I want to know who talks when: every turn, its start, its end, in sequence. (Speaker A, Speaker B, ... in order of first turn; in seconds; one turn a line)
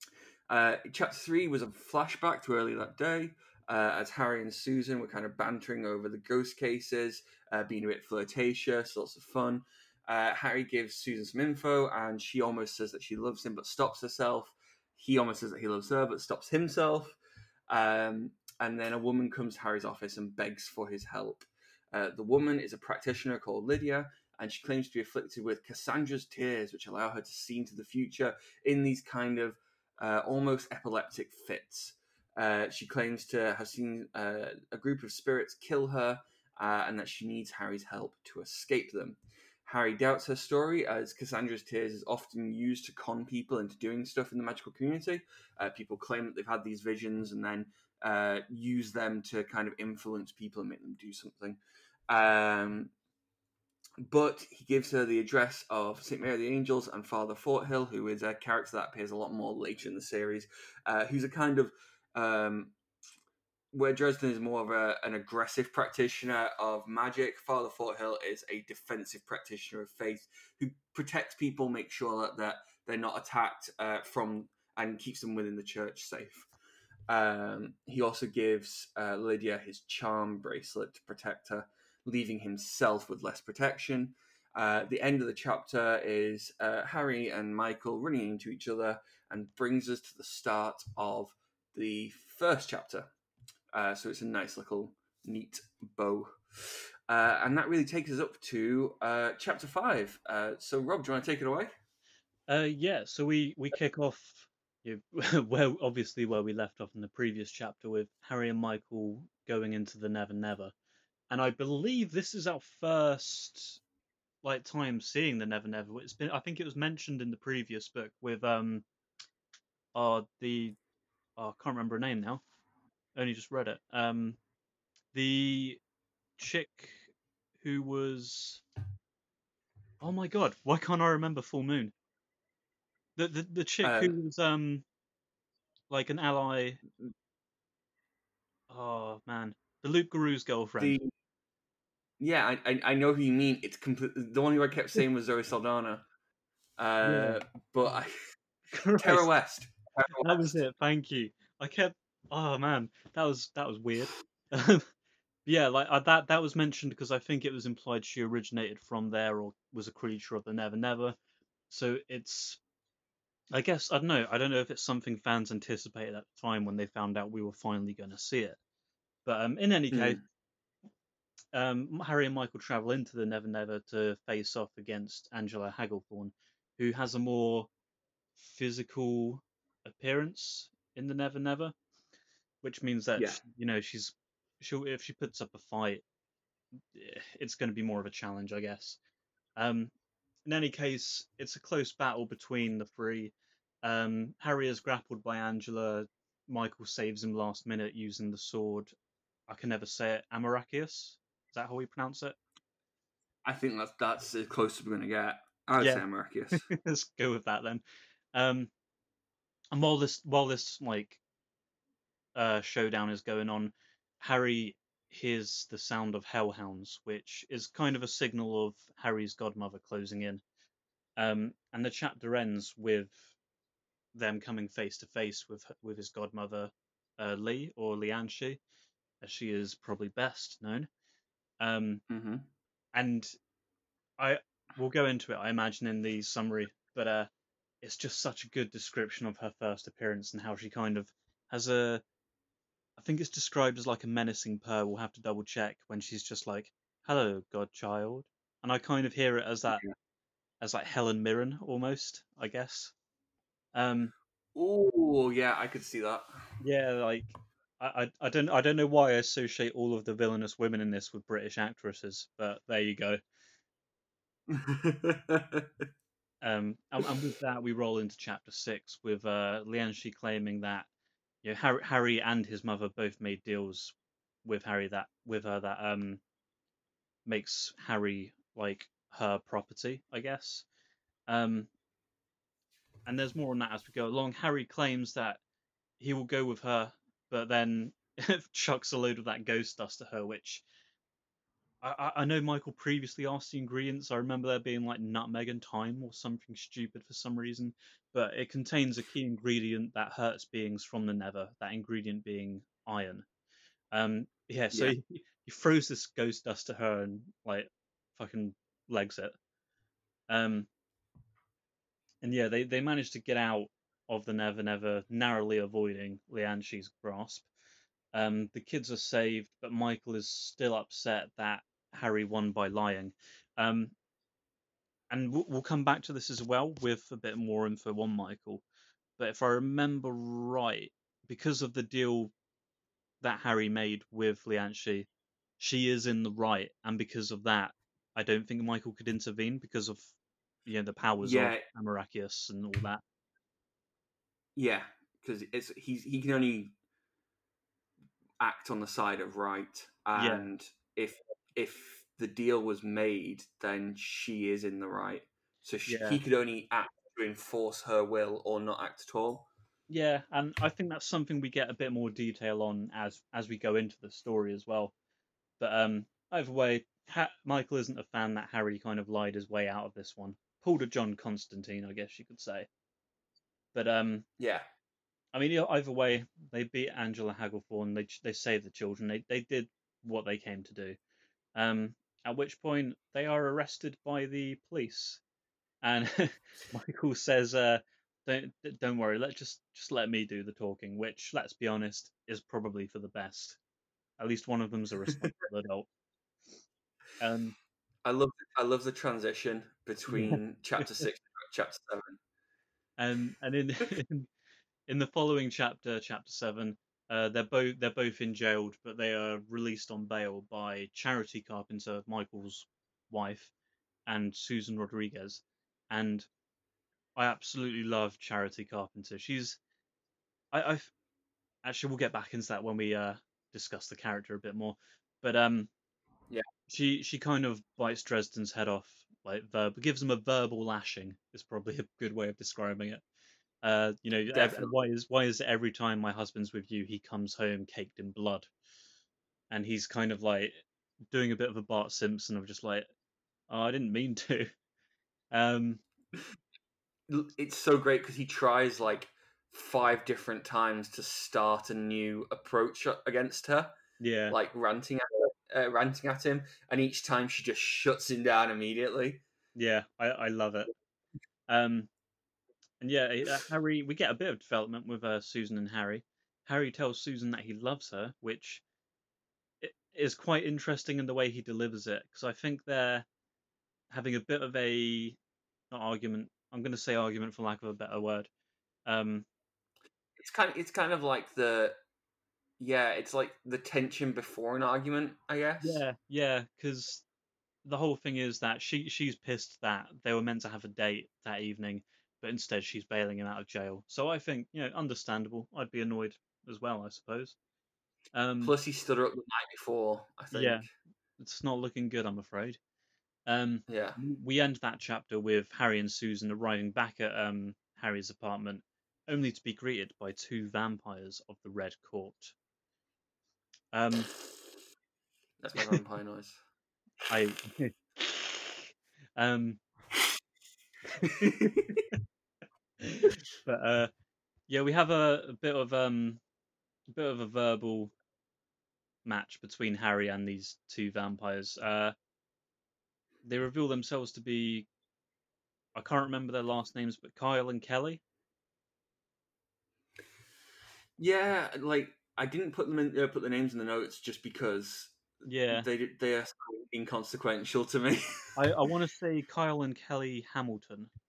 Speaker A: 0.5-17.2
Speaker A: 17.7-52.9
Speaker A: 54.0-62.8
Speaker A: 63.7-76.5
Speaker A: 77.1-93.1
Speaker A: 93.7-101.7
Speaker B: 102.5-110.7
Speaker B: 111.3-113.8
Speaker B: 114.4-118.8
Speaker B: 119.9-120.8
Speaker B: 121.4-122.4
Speaker B: 123.2-124.4
Speaker B: 125.1-125.8
Speaker B: 126.4-128.6
Speaker B: 130.0-131.9
Speaker B: 133.2-134.8
Speaker A: 133.8-134.1
Speaker B: 135.9-136.8
Speaker B: 138.7-141.0
Speaker A: 140.8-141.1
Speaker A: 142.2-146.1
Speaker A: 146.8-148.1
Speaker B: 147.0-147.4
Speaker B: 148.7-149.3
Speaker A: 149.0-150.6
Speaker B: 150.2-154.9
Speaker B: 155.4-161.2
Speaker B: 161.7-162.6
Speaker B: 163.5-168.6
Speaker B: 169.2-170.2
Speaker A: 169.9-170.2
Speaker B: 171.5-177.7
Speaker B: 178.4-181.7
Speaker B: 182.6-186.0
Speaker B: 186.9-189.0
Speaker B: 189.6-189.9
Speaker B: 190.4-198.9
Speaker B: 199.5-202.4
Speaker A: 203.4-206.7
Speaker B: 205.8-207.8
Speaker B: 208.3-208.7
Speaker B: 209.7-211.2
Speaker B: 212.3-220.4
Speaker B: 221.2-223.3
Speaker B: 224.1-228.6
Speaker B: 229.2-230.9
Speaker B: 231.6-232.0
Speaker A: 232.1-232.5
Speaker B: 232.9-233.3
Speaker B: 234.2-237.3
Speaker B: 237.8-242.0
Speaker B: 243.0-249.8
Speaker B: 250.6-252.9
Speaker B: 253.7-254.1
Speaker A: 254.5-256.3
Speaker B: 256.6-263.2
Speaker A: 264.5-265.8
Speaker B: 266.4-270.9
Speaker B: 271.4-276.2
Speaker B: 277.2-280.6
Speaker B: 281.3-281.7
Speaker B: 283.1-285.4
Speaker B: 286.0-290.6
Speaker B: 291.8-303.2
Speaker B: 303.9-309.3
Speaker B: 310.3-310.7
Speaker B: 312.2-317.4
Speaker B: 318.1-323.9
Speaker B: 325.1-328.6
Speaker B: 329.2-332.3
Speaker B: 333.2-335.1
Speaker B: 335.6-340.1
Speaker B: 340.6-343.0
Speaker A: 341.2-341.6
Speaker A: 344.6-346.7
Speaker A: 348.4-359.5
Speaker B: 350.1-350.5
Speaker B: 355.9-356.2
Speaker B: 359.9-364.9
Speaker B: 365.6-372.7
Speaker B: 373.7-374.3
Speaker A: 374.4-374.7
Speaker B: 375.3-381.0
Speaker B: 381.5-385.2
Speaker B: 385.8-393.6
Speaker B: 394.2-395.9
Speaker B: 397.2-397.6
Speaker A: 398.0-402.2
Speaker B: 400.1-401.1
Speaker B: 403.0-404.3
Speaker B: 404.9-413.5
Speaker B: 414.1-416.3
Speaker B: 417.1-419.6
Speaker B: 420.5-420.9
Speaker B: 421.6-425.7
Speaker B: 426.7-433.0
Speaker B: 433.6-438.5
Speaker A: 434.3-434.7
Speaker B: 439.5-440.6
Speaker B: 441.1-442.9
Speaker B: 443.5-444.5
Speaker B: 445.3-445.8
Speaker A: 447.1-453.7
Speaker B: 454.0-454.4
Speaker A: 454.3-459.2
Speaker B: 459.5-460.7
Speaker B: 461.5-461.9
Speaker B: 462.8-468.6
Speaker B: 469.6-473.1
Speaker B: 473.9-475.2
Speaker B: 475.7-478.3
Speaker B: 478.9-479.2
Speaker A: 480.2-481.8
Speaker A: 482.6-485.8
Speaker B: 485.6-487.0
Speaker B: 487.6-497.4
Speaker B: 498.1-498.6
Speaker A: 498.4-500.7
Speaker B: 500.3-502.6
Speaker B: 503.3-512.3
Speaker A: 503.7-504.0
Speaker B: 513.7-514.1
Speaker A: 515.4-516.4
Speaker B: 517.1-519.6
Speaker B: 520.9-521.8
Speaker A: 521.2-521.6
Speaker B: 522.8-523.9
Speaker B: 524.5-526.2
Speaker B: 526.9-527.9
Speaker B: 529.0-531.9
Speaker B: 533.2-534.7
Speaker B: 535.7-538.0
Speaker A: 541.0-548.2
Speaker B: 545.2-545.7
Speaker B: 548.4-550.9